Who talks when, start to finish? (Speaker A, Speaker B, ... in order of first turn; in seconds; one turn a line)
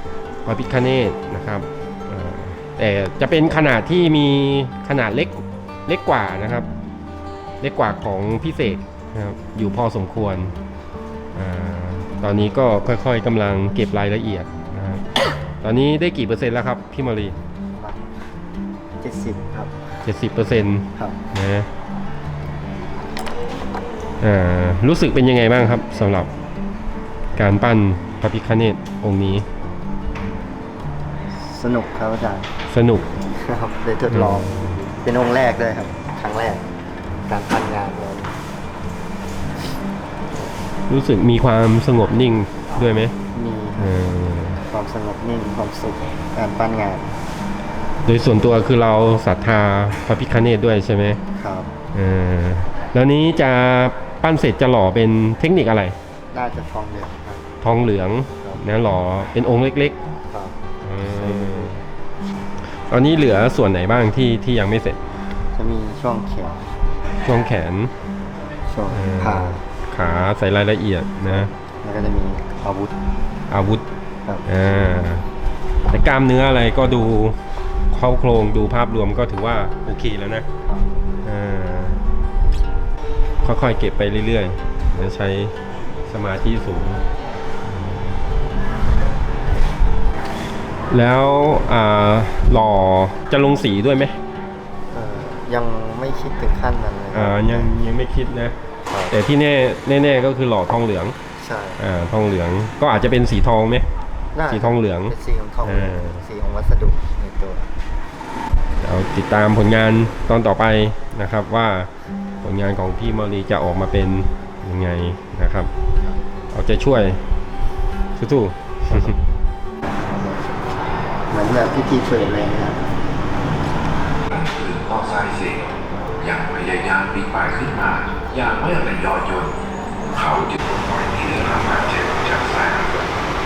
Speaker A: 0.5-6.7
Speaker A: 7.6-10.5
Speaker A: 11.3-15.0
Speaker A: 15.6-17.4
Speaker B: 17.7-18.1
Speaker B: 19.0-19.9
Speaker A: 20.1-21.7
Speaker A: 24.2-26.3
Speaker A: 27.4-29.5
Speaker B: 31.4-32.5
Speaker A: 32.7-33.2
Speaker B: 33.3-36.7
Speaker A: 34.1-34.5
Speaker B: 37.3-38.3
Speaker A: 40.9-43.1
Speaker B: 43.3-44.0
Speaker A: 43.8-44.6
Speaker B: 44.6-47.1
Speaker A: 48.0-51.2
Speaker B: 51.4-51.7
Speaker A: 51.9-56.0
Speaker B: 56.3-57.4
Speaker A: 57.6-60.0
Speaker B: 60.3-61.7
Speaker A: 60.8-61.8
Speaker A: 62.9-65.0
Speaker B: 65.5-66.7
Speaker A: 67.2-67.9
Speaker B: 68.7-69.6
Speaker A: 68.9-71.5
Speaker B: 71.4-72.9
Speaker A: 73.5-73.8
Speaker A: 74.5-75.2
Speaker A: 75.9-77.4
Speaker A: 77.9-80.5
Speaker A: 81.2-82.0
Speaker A: 83.4-85.5
Speaker A: 86.1-87.0
Speaker A: 87.7-88.1
Speaker A: 90.9-94.2
Speaker B: 94.9-97.7
Speaker A: 97.1-98.6
Speaker B: 98.9-99.2
Speaker A: 99.1-101.2
Speaker B: 101.4-101.8
Speaker A: 101.8-103.9
Speaker B: 104.3-107.7
Speaker A: 104.5-106.2
Speaker A: 108.8-111.9
Speaker A: 112.4-115.7
Speaker A: 116.5-117.2
Speaker A: 118.2-119.1
Speaker B: 120.0-120.5
Speaker B: 121.3-122.8
Speaker C: 124.3-125.7
Speaker C: 126.2-129.5
Speaker C: 130.1-132.9